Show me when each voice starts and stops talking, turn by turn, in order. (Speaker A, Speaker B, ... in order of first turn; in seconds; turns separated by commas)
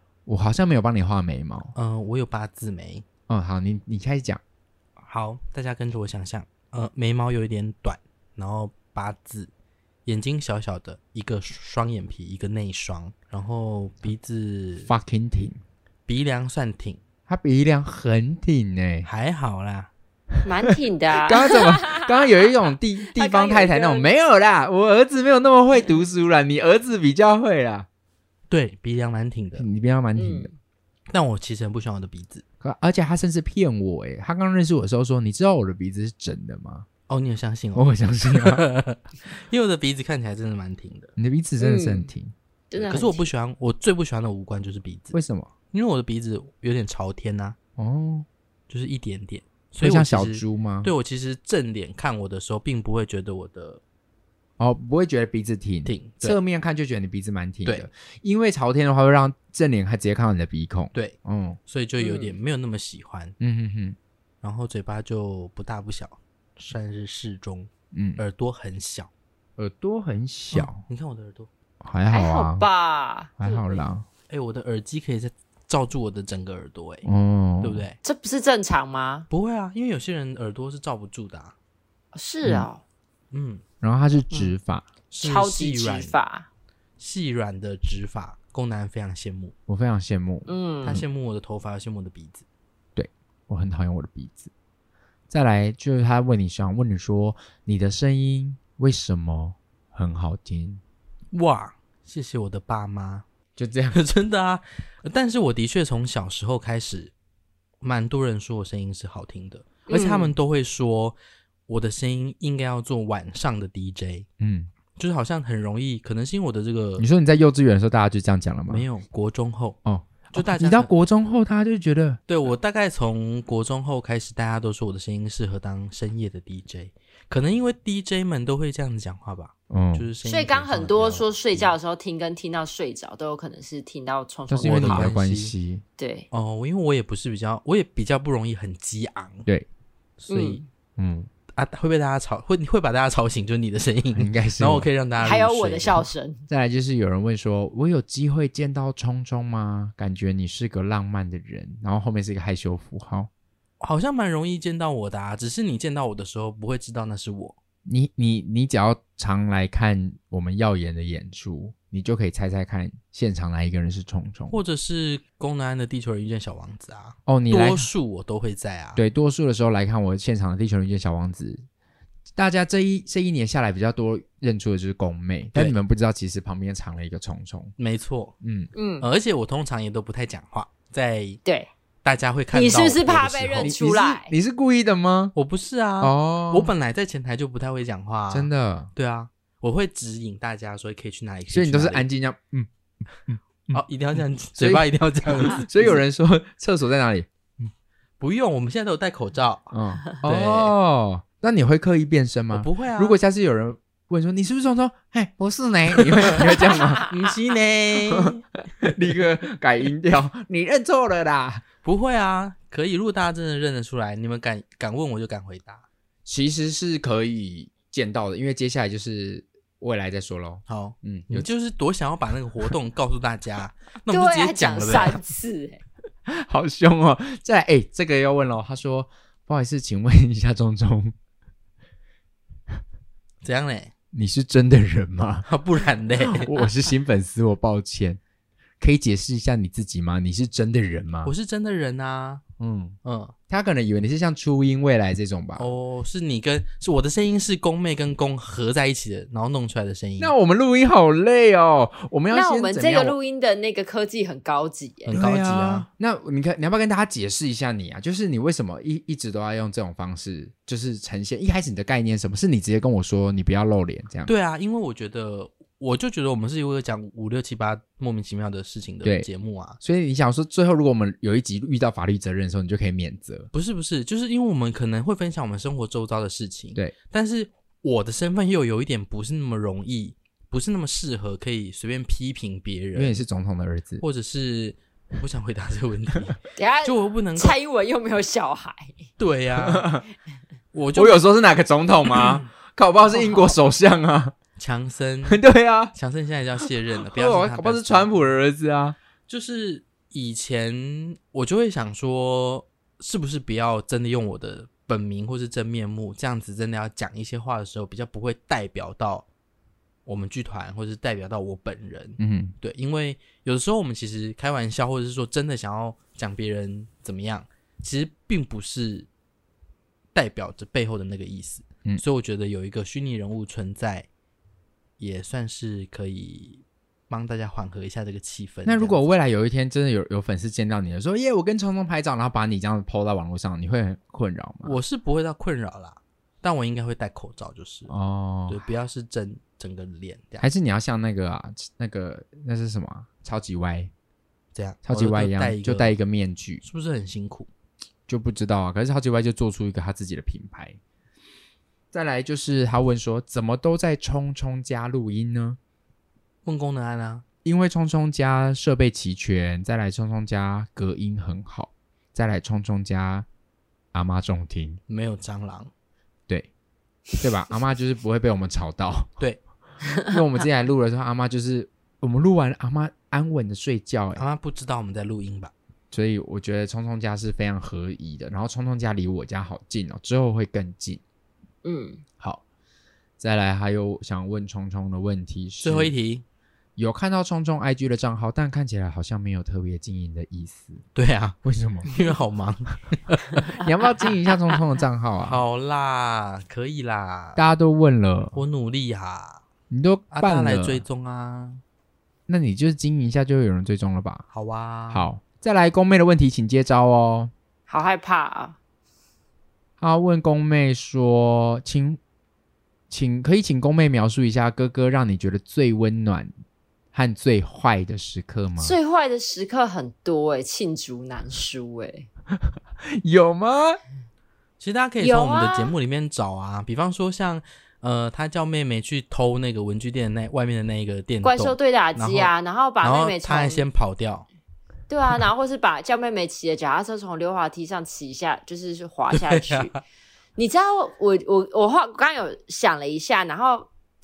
Speaker A: 0.3-1.7, Speaker B: 1.8-3.0, Speaker A: 3.3-4.4, Speaker B: 5.0-9.5, Speaker B: 10.1-14.9, Speaker A: 14.9-15.6, Speaker B: 16.1-17.0, Speaker A: 17.3-19.1, Speaker B: 19.0-19.9, Speaker C: 20.4-22.1, Speaker A: 20.6-27.9, Speaker C: 23.1-24.1, Speaker B: 28.5-29.7, Speaker A: 29.6-30.5, Speaker C: 30.2-30.5, Speaker B: 31.1-32.4, Speaker A: 32.6-36.9, Speaker B: 37.1-41.1, Speaker A: 37.8-38.7, Speaker A: 41.2-42.3, Speaker C: 41.6-42.1, Speaker C: 42.7-43.2, Speaker B: 42.8-45.2, Speaker A: 45.1-45.5, Speaker B: 45.7-47.6, Speaker A: 47.8-48.3, Speaker B: 48.7-53.8, Speaker A: 49.8-50.9, Speaker A: 54.6-61.6, Speaker B: 55.9-56.4, Speaker B: 60.9-63.4, Speaker C: 62.0-62.4, Speaker A: 63.4-64.0, Speaker B: 64.4-69.1, Speaker A: 67.9-68.2, Speaker A: 69.6-70.8, Speaker B: 70.5-71.5, Speaker A: 71.8-72.7, Speaker C: 72.1-73.8, Speaker A: 73.4-74.1, Speaker B: 74.3-77.1, Speaker A: 77.0-77.8, Speaker B: 77.6-78.0, Speaker C: 78.0-79.3, Speaker B: 79.3-81.5, Speaker C: 82.1-82.8, Speaker B: 83.3-83.6, Speaker A: 83.8-84.9, Speaker B: 85.1-86.2, Speaker C: 85.2-86.5, Speaker B: 87.0-89.5, Speaker A: 89.7-91.0, Speaker C: 90.5-91.0, Speaker B: 90.8-92.5, Speaker A: 93.0-94.5, Speaker A: 95.3-100.8, Speaker B: 101.3-103.2, Speaker A: 103.6-104.0, Speaker B: 103.9-107.1, Speaker B: 107.8-111.2, Speaker C: 109.9-110.3, Speaker B: 111.7-114.3, Speaker A: 114.4-114.7, Speaker B: 115.0-117.0, Speaker A: 117.0-118.9, Speaker B: 118.7-119.8, Speaker A: 119.8-122.2, Speaker B: 120.3-120.9, Speaker B: 122.3-131.7, Speaker A: 129.7-130.1, Speaker C: 130.2-135.2, Speaker A: 134.5-135.8, Speaker B: 134.6-135.5, Speaker C: 136.0-136.3, Speaker B: 136.3-139.5, Speaker B: 140.2-140.7, Speaker C: 140.3-140.6, Speaker A: 141.0-141.3, Speaker B: 141.6-146.1, Speaker A: 144.2-144.9, Speaker C: 145.2-146.4, Speaker A: 146.5-153.3, Speaker B: 153.8-157.6, Speaker A: 157.9-164.6, Speaker B: 164.5-169.0, Speaker A: 167.3-167.9, Speaker A: 169.0-171.6, Speaker A: 172.3-177.7, Speaker B: 177.8-178.3, Speaker A: 178.4-178.7, Speaker C: 178.7-179.1, Speaker B: 179.0-181.4, Speaker C: 181.4-181.7, Speaker B: 182.0-183.7, Speaker C: 182.5-184.3, Speaker A: 183.6-185.3, Speaker B: 185.3-192.1, Speaker A: 186.0-186.7, Speaker A: 188.3-188.9, Speaker A: 191.5-193.8, Speaker B: 193.7-196.0, Speaker A: 194.6-197.3, Speaker B: 198.2-200.7, Speaker A: 199.7-207.1, Speaker B: 202.5-203.2, Speaker C: 206.7-207.1, Speaker B: 207.0-208.4, Speaker A: 208.1-211.6, Speaker B: 211.8-215.8, Speaker A: 216.3-221.5, Speaker B: 220.7-225.2, Speaker C: 224.1-225.8, Speaker A: 226.3-231.1, Speaker B: 233.4-233.9, Speaker A: 234.1-235.5, Speaker B: 235.5-236.5, Speaker A: 236.2-238.2, Speaker A: 238.8-241.3, Speaker B: 241.2-242.4, Speaker A: 242.6-243.0, Speaker B: 243.0-243.3, Speaker A: 243.5-245.7, Speaker B: 245.6-250.3, Speaker A: 250.2-253.2, Speaker C: 252.3-255.2, Speaker B: 255.1-255.9, Speaker A: 255.1-264.3, Speaker B: 264.3-269.8, Speaker A: 269.0-269.3, Speaker A: 269.8-273.5, Speaker B: 273.5-283.2, Speaker A: 282.9-284.0, Speaker B: 284.0-287.6, Speaker C: 286.6-289.1, Speaker B: 289.2-289.9, Speaker A: 289.6-290.1, Speaker B: 290.7-291.2, Speaker A: 290.9-294.4, Speaker B: 294.6-295.4, Speaker A: 295.3-295.9, Speaker B: 295.9-298.1, Speaker A: 297.0-299.0, Speaker B: 299.3-309.3, Speaker B: 310.1-319.1, Speaker A: 312.2-312.6, Speaker B: 320.1-324.1, Speaker B: 325.0-329.0, Speaker A: 328.7-334.8, Speaker B: 334.6-337.9, Speaker A: 337.9-338.6, Speaker B: 338.5-340.5, Speaker A: 340.4-343.9, Speaker B: 344.6-345.9, Speaker A: 344.9-346.6, Speaker B: 346.6-347.5, Speaker A: 348.1-350.8, Speaker A: 351.9-355.6, Speaker B: 356.4-357.2, Speaker A: 357.4-363.3, Speaker A: 363.9-364.8, Speaker B: 364.9-365.7, Speaker A: 367.2-369.2, Speaker A: 370.1-374.2, Speaker B: 374.2-375.5, Speaker A: 375.9-381.0, Speaker C: 381.6-382.0, Speaker A: 383.2-385.9, Speaker B: 385.6-386.2, Speaker A: 386.8-390.8, Speaker B: 390.9-393.6, Speaker A: 391.4-391.9, Speaker A: 393.5-395.4, Speaker B: 395.2-397.4, Speaker A: 397.4-398.4, Speaker B: 398.3-399.4, Speaker A: 399.7-400.8, Speaker B: 400.1-401.6, Speaker A: 402.3-404.3, Speaker B: 404.3-405.1, Speaker A: 404.9-407.3, Speaker C: 407.7-408.6, Speaker A: 409.8-412.0, Speaker A: 412.9-416.3, Speaker A: 416.9-418.8, Speaker C: 418.6-422.1, Speaker A: 422.5-423.8, Speaker B: 424.6-434.3, Speaker C: 425.0-425.7, Speaker C: 431.2-433.7, Speaker C: 434.9-439.8, Speaker B: 439.1-439.8, Speaker C: 440.4-443.7